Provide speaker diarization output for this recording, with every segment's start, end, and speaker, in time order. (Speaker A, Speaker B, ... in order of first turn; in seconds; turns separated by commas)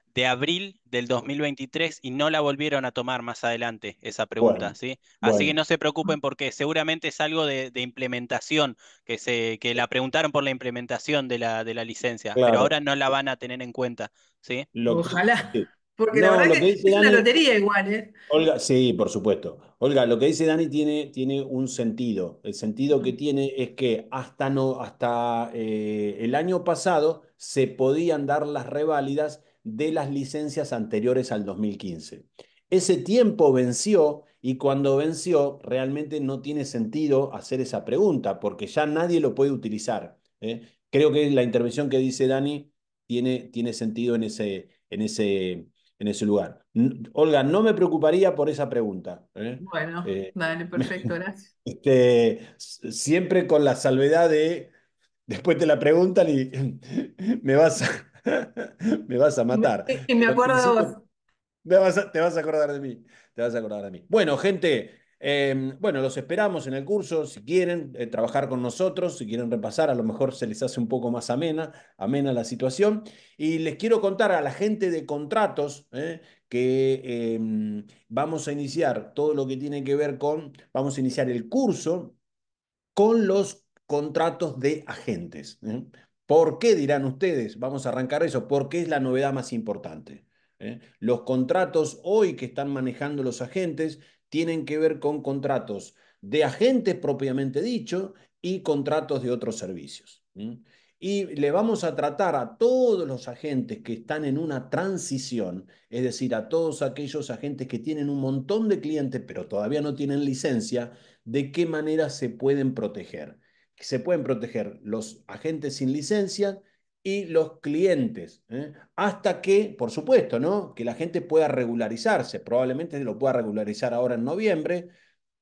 Speaker A: 0.1-14.7, Speaker B: 4.4-5.6, Speaker B: 12.3-12.8, Speaker B: 14.7-17.3, Speaker C: 14.8-18.1, Speaker B: 18.3-51.1, Speaker C: 49.6-51.5, Speaker B: 51.7-54.7, Speaker B: 55.3-61.0, Speaker C: 59.5-61.0, Speaker B: 61.6-82.2, Speaker B: 83.0-124.9